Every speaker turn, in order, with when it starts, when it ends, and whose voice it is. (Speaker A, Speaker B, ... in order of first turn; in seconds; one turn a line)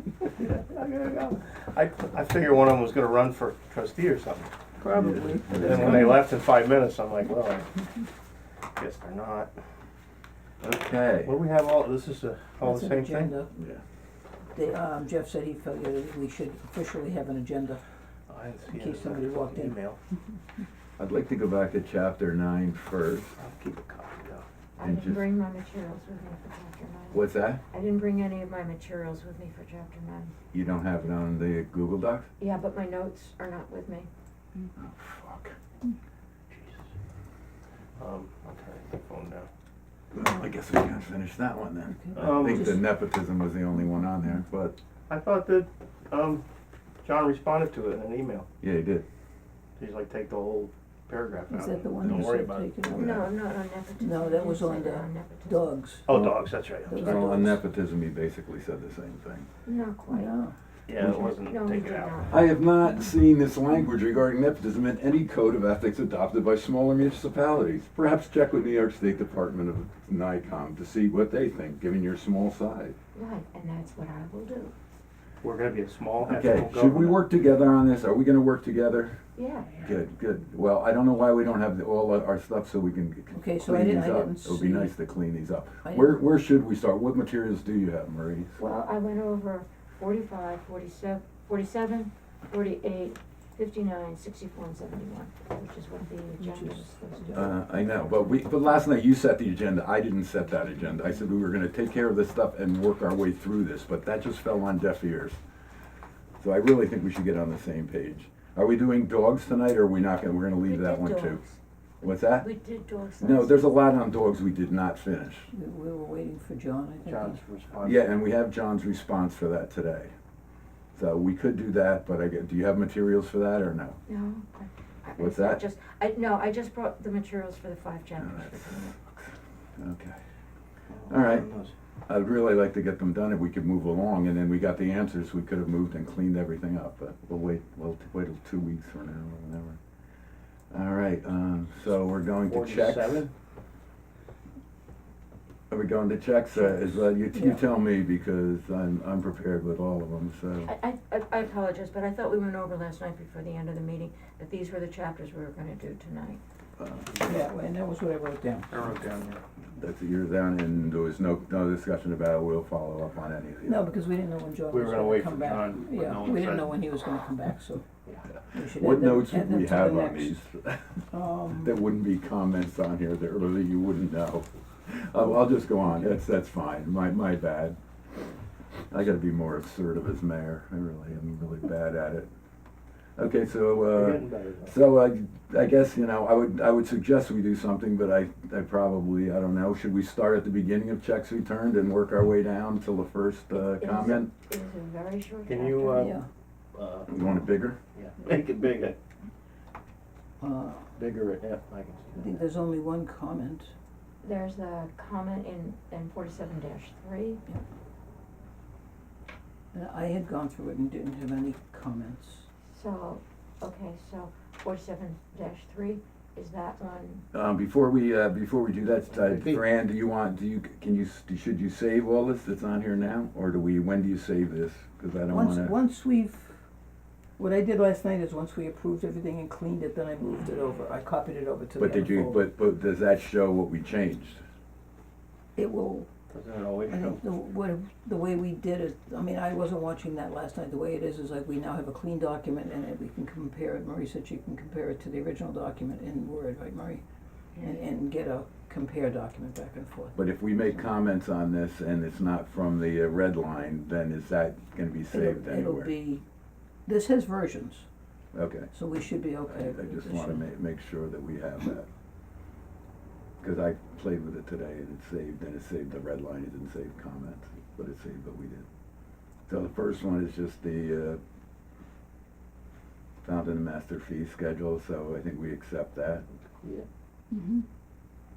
Speaker A: 0.3-7.7
Speaker B: 4.8-6.1
Speaker C: 5.0-6.2
Speaker A: 8.8-9.5
Speaker C: 10.6-11.4
Speaker A: 11.2-13.3
Speaker B: 12.6-13.5
Speaker C: 13.5-13.8
Speaker B: 14.5-17.8
Speaker A: 18.3-20.0
Speaker B: 18.7-19.8
Speaker C: 21.0-23.4
Speaker A: 23.4-24.4
Speaker D: 24.8-30.3
Speaker C: 24.8-25.3
Speaker C: 27.1-27.6
Speaker C: 30.5-32.3
Speaker D: 32.4-34.1
Speaker C: 34.8-35.5
Speaker A: 36.5-36.8
Speaker A: 38.0-39.5
Speaker C: 40.1-44.8
Speaker B: 41.9-42.9
Speaker A: 42.1-42.7
Speaker A: 45.1-46.4
Speaker A: 47.0-48.5
Speaker C: 48.6-49.0
Speaker A: 49.8-53.0
Speaker B: 51.5-53.3
Speaker D: 52.9-55.7
Speaker B: 54.0-56.1
Speaker A: 56.0-57.3
Speaker C: 56.1-59.5
Speaker B: 56.9-57.6
Speaker D: 59.6-60.3
Speaker B: 60.1-60.5
Speaker A: 60.9-62.3
Speaker D: 61.0-62.5
Speaker C: 62.3-72.9
Speaker D: 73.1-74.7
Speaker A: 75.4-77.2
Speaker C: 76.2-79.2
Speaker D: 79.3-79.8
Speaker C: 79.8-88.6
Speaker B: 83.3-85.0
Speaker B: 85.8-86.2
Speaker D: 88.6-97.6
Speaker B: 96.3-97.5
Speaker C: 97.3-105.4
Speaker C: 106.4-111.4
Speaker D: 110.6-113.6
Speaker C: 112.0-112.5
Speaker C: 113.2-115.5
Speaker B: 115.5-117.4
Speaker A: 117.0-118.0
Speaker C: 117.8-120.1
Speaker C: 120.9-124.0
Speaker D: 124.0-128.9
Speaker C: 125.2-125.6
Speaker C: 128.2-130.2
Speaker A: 130.9-131.7
Speaker C: 131.1-131.5
Speaker C: 132.1-139.8
Speaker C: 140.7-143.3
Speaker A: 142.4-143.3
Speaker C: 145.7-150.7
Speaker B: 146.7-147.6
Speaker D: 150.6-156.4
Speaker C: 156.8-157.2
Speaker B: 157.2-158.8
Speaker A: 158.7-159.4
Speaker C: 159.8-163.8
Speaker B: 163.6-167.8
Speaker A: 164.7-166.7
Speaker B: 168.5-170.4
Speaker C: 168.6-171.0
Speaker B: 171.1-171.8
Speaker C: 171.6-177.8
Speaker C: 178.9-182.3
Speaker C: 183.2-194.3
Speaker A: 183.7-184.7
Speaker D: 193.5-196.1
Speaker A: 195.4-196.1
Speaker B: 196.0-196.3
Speaker A: 196.7-197.1
Speaker C: 197.1-197.8
Speaker A: 197.9-198.9
Speaker B: 200.4-200.9
Speaker A: 200.9-202.4
Speaker B: 202.2-203.7
Speaker D: 204.2-207.4
Speaker B: 209.7-212.5
Speaker D: 212.7-217.2
Speaker C: 217.3-225.7
Speaker A: 219.2-219.6
Speaker B: 225.3-226.6
Speaker B: 227.4-232.4
Speaker C: 231.8-234.4
Speaker B: 235.6-236.1
Speaker A: 236.3-237.2
Speaker B: 236.9-247.0
Speaker B: 247.6-250.2
Speaker C: 250.1-255.9
Speaker B: 255.1-256.2
Speaker B: 256.9-257.9
Speaker C: 258.3-258.7
Speaker B: 258.7-260.4
Speaker C: 259.5-261.9
Speaker C: 263.4-268.6
Speaker C: 269.5-271.2
Speaker C: 273.2-276.2
Speaker B: 277.3-277.6